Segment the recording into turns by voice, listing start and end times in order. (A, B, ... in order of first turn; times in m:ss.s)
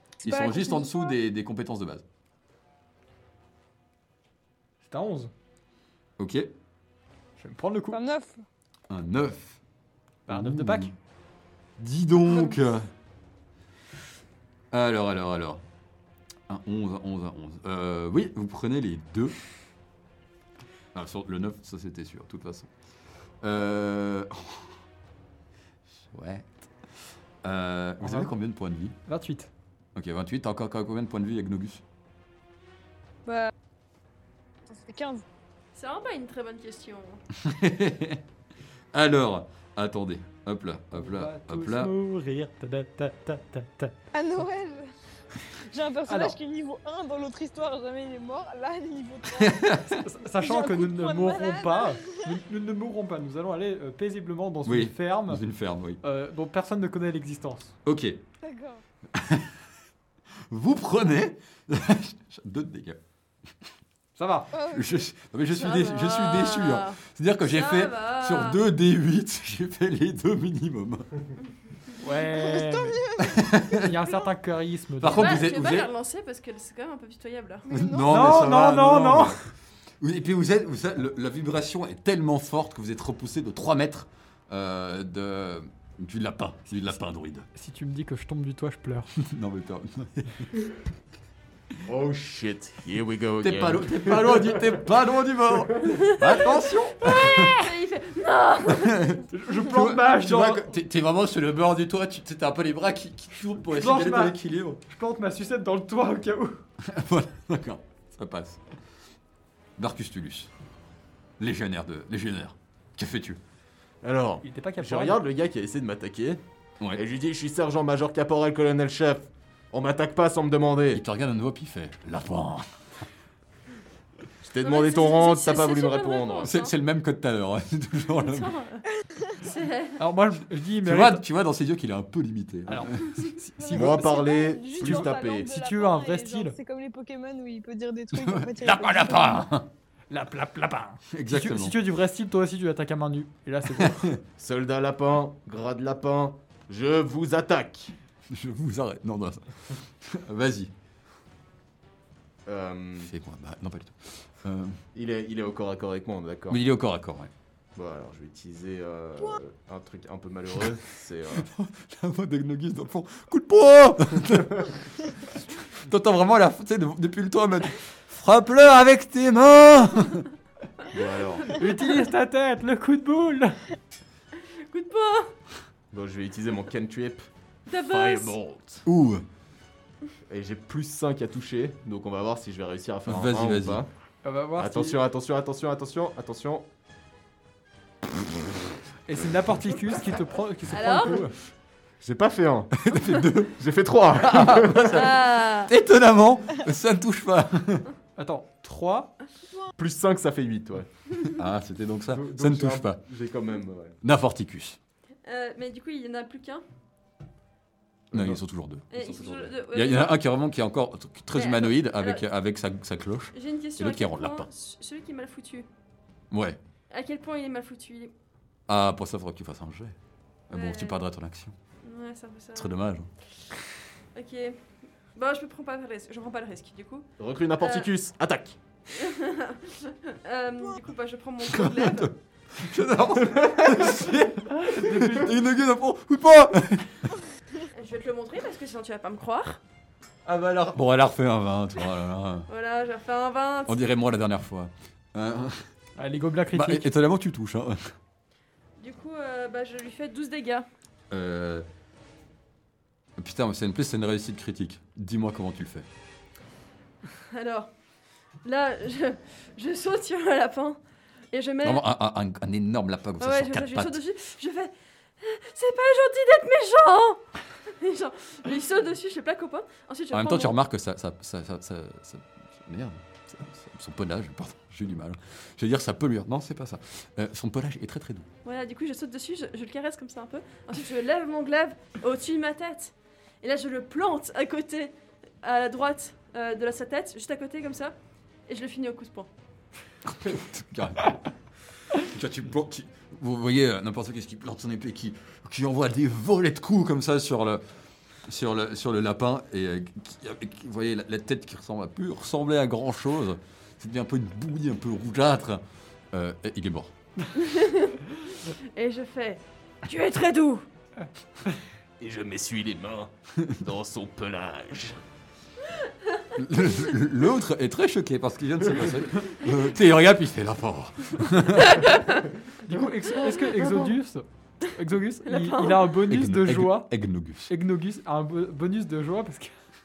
0:00.2-0:02.0 A
0:00.2-0:01.2 B
0:04.8-0:05.3 C
0:06.2-0:06.5 A
0:07.4-0:08.0 C
0:07.9-0:08.4 B
0:08.9-0:09.6 A
0:10.3-0:10.9 A
0:10.3-0:10.9 C
0:11.8-0:12.9 A
0:14.7-0:15.6 A
0:16.5-0:19.4 A
0:20.9-0:22.7 A
0:23.4-0:24.7 A
0:26.1-0:26.6 A
0:27.4-0:29.0 A
0:28.0-0:28.3 C
0:29.0-0:29.5 C
0:29.9-0:31.8 A
0:33.2-0:33.5 B
0:34.7-0:35.2 B
0:35.7-0:37.2 D
0:37.4-0:38.2 A
0:38.9-0:41.9 A
0:40.9-0:44.0 C
0:44.1-0:44.9 B
0:45.5-0:52.4 B
0:46.1-0:46.4 C
0:49.4-0:49.9 A
0:49.8-0:55.4 C
0:54.6-0:56.0 A
0:56.0-0:57.8 C
0:57.8-0:58.2 A
0:58.4-0:58.8 B
0:59.1-0:59.5 A
1:00.5-1:03.0 A
1:04.2-1:04.5 C
1:04.5-1:05.1 B
1:04.7-1:11.1 A
1:05.5-1:08.6 D
1:12.0-1:15.4 C
1:12.2-1:13.8 B
1:13.3-1:13.9 A
1:15.0-1:15.9 A
1:15.0-1:17.6 D
1:17.6-1:18.6 B
1:17.7-1:27.4 A
1:18.0-1:19.4 C
1:27.5-1:29.1 C
1:29.2-1:30.6 A
1:31.9-1:34.8 E
1:33.4-1:37.7 A
1:35.7-1:36.0 E
1:36.0-1:39.2 D
1:38.7-1:44.8 A
1:39.3-1:40.6 C
1:43.7-1:46.6 C
1:46.8-1:48.6 A
1:49.8-1:50.5 A
1:51.4-1:53.4 A
1:54.0-1:56.4 E
1:54.4-1:55.2 C
1:56.9-2:01.0 E
2:00.9-2:02.6 A
2:04.4-2:06.5 E
2:04.6-2:06.7 D
2:06.4-2:08.6 A
2:08.2-2:08.8 D
2:09.1-2:09.4 B
2:09.4-2:10.0 D
2:10.0-2:11.2 C
2:10.8-2:13.2 A
2:12.7-2:14.2 C
2:13.6-2:19.5 B
2:13.6-2:15.5 E
2:14.8-2:16.5 C
2:18.2-2:19.7 A
2:20.1-2:24.1 C
2:21.1-2:21.8 A
2:23.8-2:24.2 A
2:24.4-2:27.9 E
2:28.3-2:30.7 A
2:32.4-2:33.1 E
2:33.0-2:34.8 A
2:34.9-2:36.6 E
2:36.5-2:37.3 A
2:37.8-2:41.5 E
2:41.3-2:45.2 A
2:45.9-2:50.3 A
2:50.9-2:51.6 E
2:51.4-2:53.6 C
2:54.4-2:55.3 D
2:55.9-2:58.8 E
2:57.7-2:58.4 D
2:58.8-2:59.2 A
3:00.3-3:03.9 E
3:03.0-3:03.8 A
3:04.2-3:05.0 C
3:04.6-3:06.7 E
3:09.1-3:11.3 C
3:10.7-3:11.2 D
3:12.0-3:12.7 E
3:12.7-3:13.6 A
3:13.5-3:15.1 E
3:14.2-3:17.9 A
3:14.8-3:15.7 D
3:18.2-3:19.1 C
3:19.8-3:20.9 E
3:21.2-3:23.0 A
3:22.1-3:24.0 E
3:24.0-3:24.8 A
3:25.2-3:26.6 D
3:28.1-3:28.4 E
3:28.1-3:34.5 A
3:28.9-3:30.2 D
3:31.3-3:32.2 D
3:33.3-3:35.7 D
3:36.3-3:36.6 A
3:36.9-3:38.1 D
3:38.7-3:40.0 A
3:40.5-3:41.5 A
3:40.5-3:41.0 D
3:41.8-3:42.8 D
3:42.5-3:43.1 A
3:44.1-3:44.6 D
3:45.1-3:47.1 D
3:47.2-3:48.6 E
3:47.6-3:47.9 D
3:48.9-3:52.1 D
3:51.5-3:57.1 A
3:54.5-3:55.3 C
3:57.7-3:59.6 D
4:00.2-4:02.5 A
4:02.5-4:03.8 D
4:03.7-4:05.6 A
4:06.0-4:06.9 C
4:06.5-4:07.9 A
4:08.8-4:10.7 D
4:11.1-4:11.6 A
4:13.2-4:15.9 A
4:17.2-4:17.7 D
4:18.4-4:20.8 D
4:21.3-4:21.8 D
4:21.6-4:24.0 A
4:23.2-4:30.6 D
4:30.1-4:38.3 A
4:38.4-4:47.9 D
4:48.5-4:49.3 D
4:50.0-4:51.3 A
4:52.0-4:57.6 A
4:58.2-5:06.9 A
5:07.3-5:10.6 D
5:12.0-5:15.0 E
5:16.4-5:21.9 A
5:21.8-5:22.2 D
5:22.6-5:26.9 C
5:23.4-5:23.9 D
5:25.2-5:25.9 D
5:26.0-5:27.5 A
5:27.5-5:29.5 C